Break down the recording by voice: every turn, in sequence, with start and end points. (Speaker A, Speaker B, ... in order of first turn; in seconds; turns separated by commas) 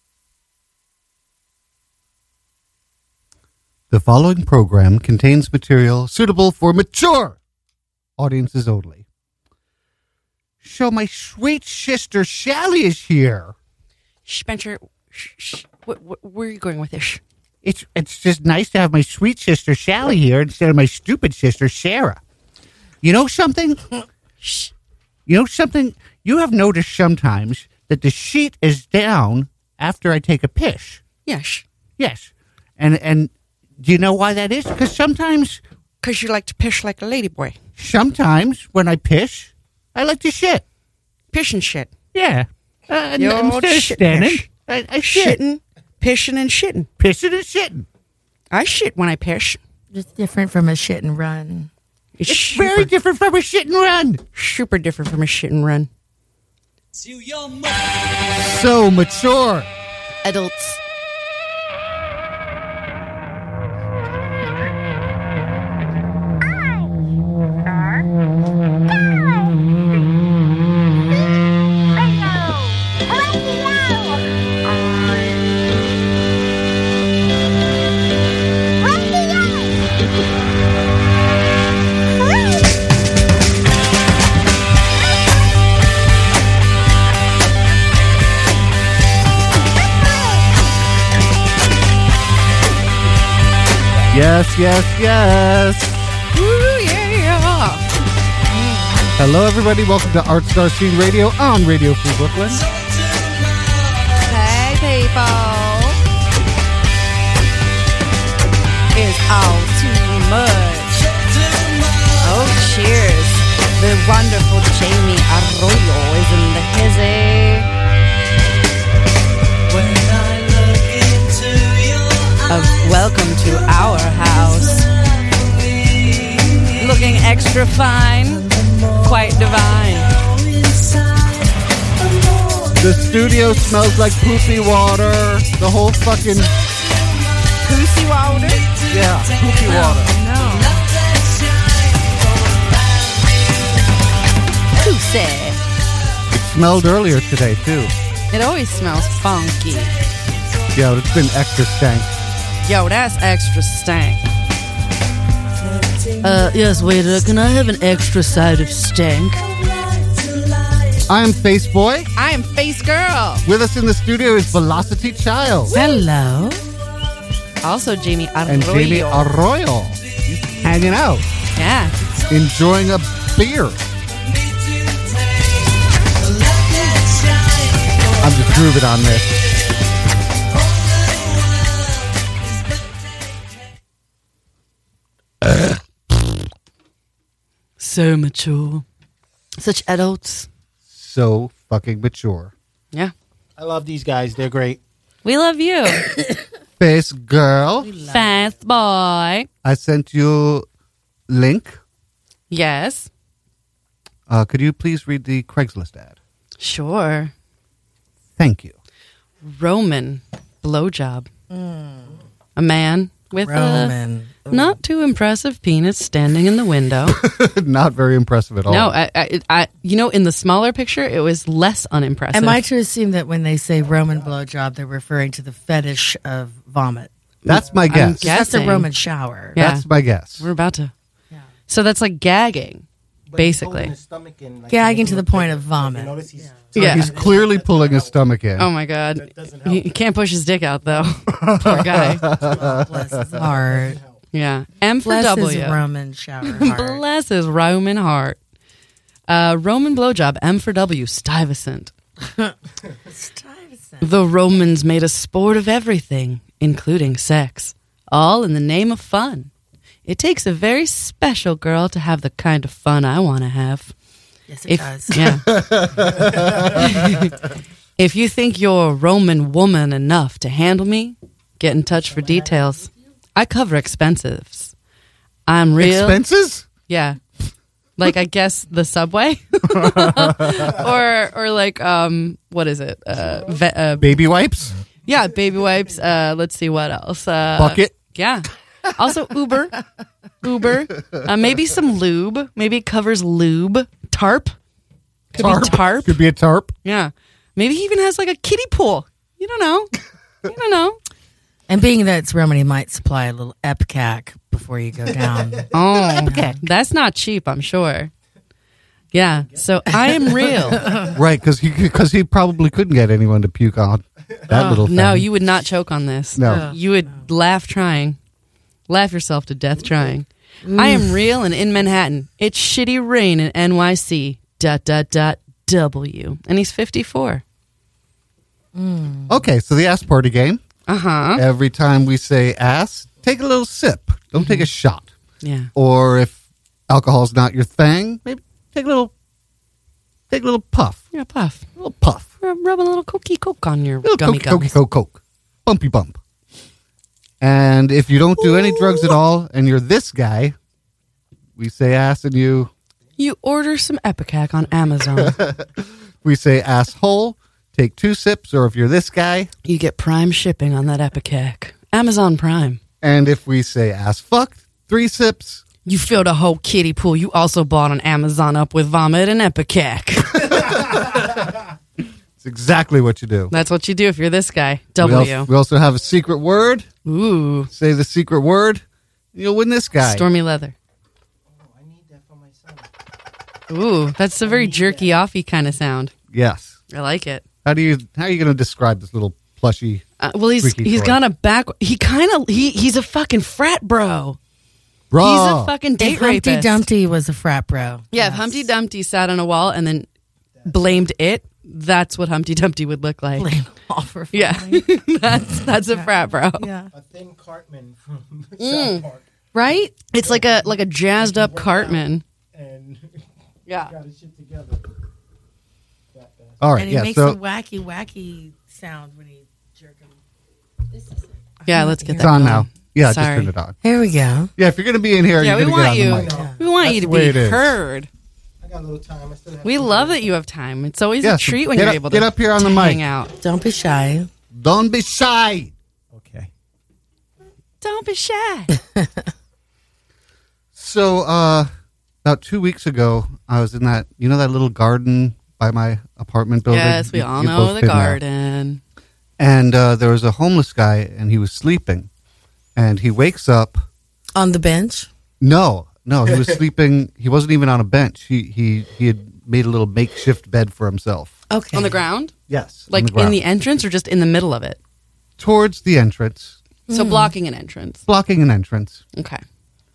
Speaker A: 3.9-7.4, Speaker A: 8.2-9.0, Speaker A: 10.6-13.5, Speaker B: 14.3-17.2, Speaker A: 17.6-22.2, Speaker A: 23.0-23.8, Speaker B: 24.4-24.7, Speaker A: 25.3-31.0, Speaker B: 31.3-31.6, Speaker A: 32.0-35.6, Speaker B: 36.0-37.6, Speaker A: 37.8-40.6, Speaker B: 41.3-41.9, Speaker A: 42.1-45.4, Speaker B: 43.2-44.5, Speaker B: 45.0-46.9, Speaker A: 47.0-47.9, Speaker B: 48.5-49.6, Speaker C: 49.9-51.7, Speaker B: 52.2-52.7, Speaker A: 52.3-54.2, Speaker B: 54.4-55.9, Speaker A: 58.2-59.7, Speaker B: 60.2-60.8, Speaker A: 94.1-96.0, Speaker B: 96.3-97.8, Speaker A: 99.2-102.6, Speaker B: 104.2-106.0, Speaker B: 108.9-111.1, Speaker B: 112.2-117.7, Speaker B: 122.5-124.9, Speaker B: 126.8-128.5, Speaker B: 129.0-130.1, Speaker A: 132.8-136.6, Speaker B: 137.6-138.7, Speaker A: 138.9-140.2, Speaker C: 139.6-140.8, Speaker B: 139.6-140.8, Speaker B: 144.8-145.6, Speaker A: 146.3-147.9, Speaker B: 148.3-149.9, Speaker A: 150.7-152.1, Speaker B: 152.6-154.2, Speaker B: 156.2-159.5, Speaker A: 161.1-162.1, Speaker B: 162.2-163.4, Speaker A: 163.4-165.8, Speaker C: 165.7-166.7, Speaker B: 167.6-169.3, Speaker A: 168.5-171.3, Speaker B: 171.6-171.9, Speaker A: 172.3-173.8, Speaker A: 178.2-179.4, Speaker A: 185.4-185.7, Speaker B: 187.8-188.8, Speaker B: 189.6-190.5, Speaker A: 190.9-192.5, Speaker D: 193.6-194.8, Speaker B: 195.2-196.1, Speaker A: 196.8-197.9, Speaker C: 197.9-198.5, Speaker B: 198.0-199.5, Speaker A: 199.6-200.7, Speaker A: 201.3-201.8, Speaker B: 202.5-203.1, Speaker A: 204.3-206.2, Speaker B: 206.6-207.3, Speaker A: 208.4-208.7, Speaker B: 209.4-211.3, Speaker C: 211.5-212.2, Speaker B: 212.6-213.9, Speaker C: 213.4-214.8, Speaker B: 214.5-217.2, Speaker A: 217.1-218.9, Speaker B: 218.7-222.6, Speaker C: 222.3-227.1, Speaker A: 227.4-228.3, Speaker B: 227.5-228.9, Speaker C: 228.0-229.6, Speaker B: 229.6-229.9, Speaker A: 229.6-230.4, Speaker B: 230.4-230.9, Speaker B: 231.7-232.8, Speaker D: 233.3-238.2, Speaker B: 233.4-233.9, Speaker C: 234.7-236.5, Speaker A: 236.8-238.7, Speaker B: 236.8-237.1, Speaker B: 238.6-242.2, Speaker D: 239.2-239.9, Speaker A: 241.3-242.8, Speaker D: 242.2-244.2, Speaker C: 242.4-244.0, Speaker B: 244.3-245.8, Speaker C: 245.0-247.0, Speaker B: 246.4-248.4, Speaker B: 249.3-251.9, Speaker C: 252.2-252.6, Speaker C: 253.1-254.1, Speaker B: 254.0-259.5, Speaker B: 260.1-263.9, Speaker C: 264.5-265.2, Speaker B: 264.7-265.5, Speaker A: 265.2-267.3, Speaker B: 266.8-267.4, Speaker B: 268.0-274.7, Speaker B: 275.5-276.2, Speaker A: 275.8-276.7, Speaker B: 276.9-277.2, Speaker B: 278.0-284.1, Speaker A: 279.7-280.8, Speaker A: 284.0-284.8, Speaker B: 285.1-289.8, Speaker A: 287.6-288.0, Speaker B: 290.4-294.6, Speaker B: 295.4-296.2, Speaker A: 295.4-296.7, Speaker B: 296.8-299.9, Speaker B: 300.4-301.0, Speaker C: 301.7-305.7, Speaker D: 305.2-305.6, Speaker B: 305.7-308.1, Speaker A: 306.2-306.6, Speaker C: 306.3-306.6, Speaker B: 309.1-310.9, Speaker C: 310.8-311.1, Speaker D: 310.8-311.1, Speaker A: 311.1-315.3, Speaker C: 314.5-314.8, Speaker B: 314.9-318.2, Speaker A: 316.4-316.8, Speaker C: 316.4-317.2, Speaker B: 318.9-327.4, Speaker C: 320.6-321.2, Speaker C: 328.8-329.4, Speaker A: 329.3-330.6, Speaker B: 330.9-331.4, Speaker A: 331.4-335.1, Speaker B: 334.4-334.7, Speaker B: 335.4-335.7, Speaker A: 335.7-336.4, Speaker A: 336.9-339.1, Speaker A: 340.3-341.0, Speaker B: 341.1-341.7, Speaker A: 341.8-342.3, Speaker B: 342.4-344.8, Speaker A: 344.0-346.2, Speaker A: 347.4-350.6, Speaker A: 351.6-352.7, Speaker B: 353.2-355.4, Speaker A: 355.2-355.7, Speaker A: 356.2-359.5, Speaker B: 359.6-362.8, Speaker A: 363.0-365.6, Speaker B: 365.9-370.7, Speaker A: 370.5-371.4, Speaker A: 372.4-373.5, Speaker B: 373.5-375.5, Speaker A: 375.0-376.9, Speaker B: 377.1-377.7, Speaker A: 377.7-378.8, Speaker A: 379.3-380.3, Speaker B: 380.0-380.7, Speaker D: 381.5-382.9, Speaker B: 383.7-386.1, Speaker D: 384.4-385.2, Speaker A: 386.3-386.8, Speaker B: 386.9-387.4, Speaker A: 387.6-390.1, Speaker B: 390.2-394.4, Speaker A: 390.6-391.2, Speaker A: 395.1-395.7, Speaker B: 395.2-396.8, Speaker C: 396.0-398.7, Speaker B: 398.1-400.1, Speaker B: 400.7-403.6, Speaker C: 403.4-404.9, Speaker B: 404.3-406.7, Speaker C: 405.9-406.9, Speaker D: 406.9-409.2, Speaker B: 408.6-409.1, Speaker C: 409.6-409.9, Speaker B: 410.1-412.2, Speaker D: 410.2-413.2, Speaker B: 413.7-413.9, Speaker D: 413.8-414.9, Speaker D: 416.1-416.6, Speaker A: 416.6-417.4, Speaker C: 416.8-420.2, Speaker C: 420.9-422.5, Speaker B: 421.7-423.5, Speaker A: 422.2-423.8, Speaker C: 423.8-424.5, Speaker A: 424.6-427.8, Speaker B: 425.4-428.1, Speaker D: 426.0-427.2, Speaker C: 426.2-426.6, Speaker D: 428.6-430.2, Speaker B: 429.6-433.3, Speaker A: 431.2-433.0, Speaker C: 433.4-434.3, Speaker A: 434.5-435.7, Speaker D: 436.1-436.5, Speaker B: 437.8-438.7, Speaker C: 438.9-439.3, Speaker A: 440.8-441.7, Speaker A: 442.2-448.2, Speaker B: 446.7-448.8, Speaker A: 449.4-452.1, Speaker A: 452.8-453.8, Speaker C: 454.4-455.1, Speaker A: 455.4-461.4, Speaker C: 461.5-462.0, Speaker B: 461.7-462.3, Speaker A: 462.5-463.4, Speaker B: 462.9-464.8, Speaker A: 465.4-466.6, Speaker C: 466.9-467.3, Speaker B: 466.9-468.0, Speaker A: 468.1-469.0, Speaker B: 469.1-469.4